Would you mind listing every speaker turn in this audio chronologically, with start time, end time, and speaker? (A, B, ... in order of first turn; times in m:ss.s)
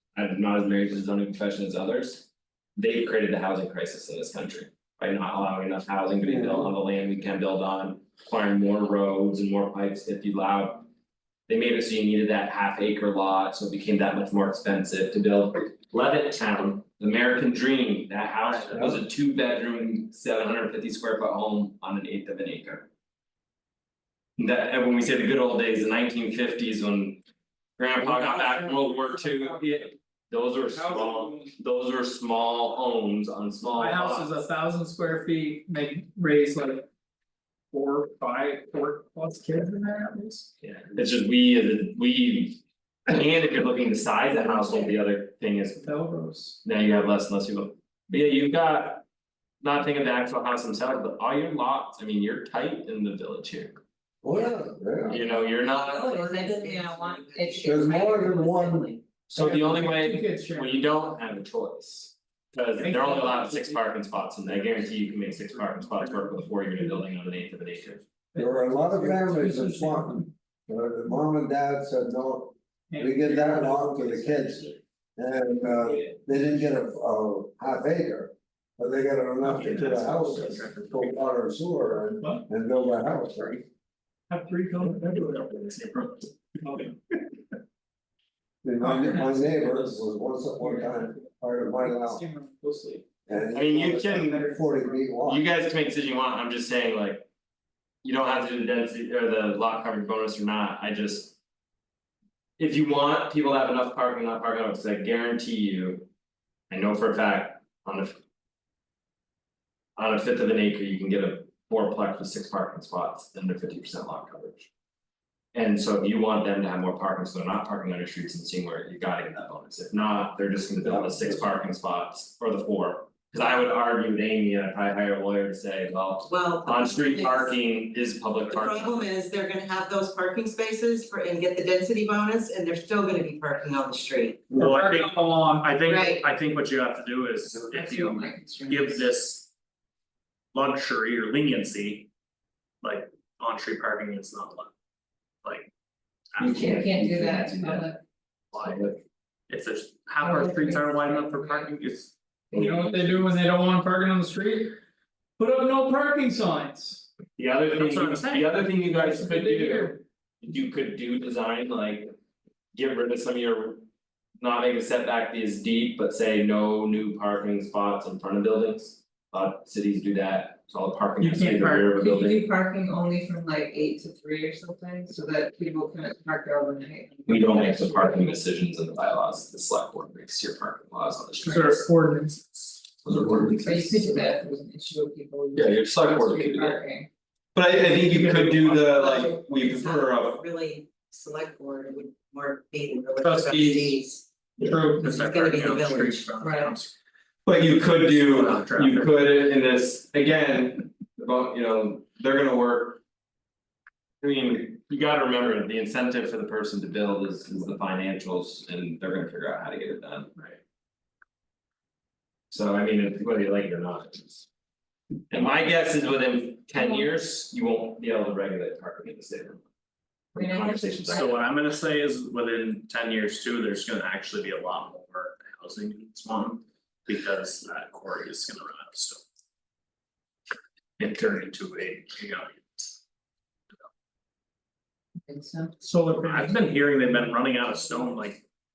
0:00.1-0:10.9 A
0:06.2-0:06.7 B
0:11.5-0:22.9 A
0:18.4-0:18.9 C
0:24.4-0:27.2 A
0:27.8-0:34.3 A
0:28.2-0:29.6 D
0:30.7-0:31.5 D
0:33.8-0:36.9 D
0:37.7-0:40.5 D
0:40.6-0:45.8 A
0:45.8-0:46.6 D
0:46.6-0:49.0 A
0:49.6-0:53.8 A
0:54.2-0:55.2 B
0:54.3-0:54.6 E
0:55.1-0:56.2 A
0:55.4-0:59.0 E
0:55.9-0:57.8 F
0:57.6-0:58.9 B
0:59.3-1:08.0 A
0:59.4-1:00.8 D
1:02.8-1:03.8 D
1:08.3-1:10.2 D
1:08.4-1:23.6 B
1:12.9-1:14.7 D
1:19.4-1:21.2 C
1:22.2-1:22.4 D
1:24.3-1:25.6 D
1:25.1-1:26.3 C
1:26.6-1:26.9 D
1:28.6-1:32.2 B
1:28.8-1:30.0 D
1:30.6-1:31.3 D
1:31.8-1:33.0 D
1:33.3-1:35.4 B
1:33.5-1:34.5 A
1:34.1-1:35.1 D
1:35.2-1:37.3 A
1:38.0-1:41.4 A
1:42.6-1:46.1 A
1:46.7-1:48.2 A
1:50.0-1:54.7 A
1:55.5-2:09.1 A
2:00.8-2:01.4 B
2:06.2-2:07.5 E
2:08.5-2:14.5 E
2:14.5-2:19.5 C
2:14.5-2:15.7 D
2:15.8-2:16.2 E
2:17.7-2:19.0 F
2:20.5-2:22.1 C
2:22.8-2:24.7 C
2:25.4-2:25.7 C
2:26.4-2:26.6 C
2:26.4-2:27.9 A
2:26.4-2:28.0 F
2:28.5-2:28.9 C
2:28.5-2:29.0 A
2:29.5-2:32.1 C
2:30.2-2:31.7 F
2:32.5-2:33.3 A
2:32.5-2:34.8 D
2:35.4-2:37.0 D
2:37.4-2:42.1 A
2:37.7-2:38.6 C
2:38.8-2:40.0 D
2:42.7-2:43.8 A
2:44.4-2:52.4 A
2:51.2-2:51.9 D
2:52.0-2:58.4 F
2:57.3-3:01.8 A
3:01.4-3:02.6 D
3:03.0-3:04.3 A
3:03.2-3:07.1 F
3:05.5-3:06.8 A
3:07.5-3:10.4 A
3:08.3-3:08.8 D
3:08.8-3:14.2 E
3:14.6-3:15.0 D
3:14.8-3:16.9 C
3:15.0-3:16.5 E
3:16.4-3:16.7 F
3:17.4-3:23.0 A
3:17.9-3:19.1 C
3:24.2-3:30.3 A
3:32.5-3:34.5 A
3:35.3-3:39.6 A
3:40.3-3:41.3 A
3:40.4-3:41.4 F
3:41.1-3:49.2 C
3:51.0-3:52.9 C
3:55.2-3:55.8 F
3:55.8-3:56.5 D
3:56.2-3:58.4 C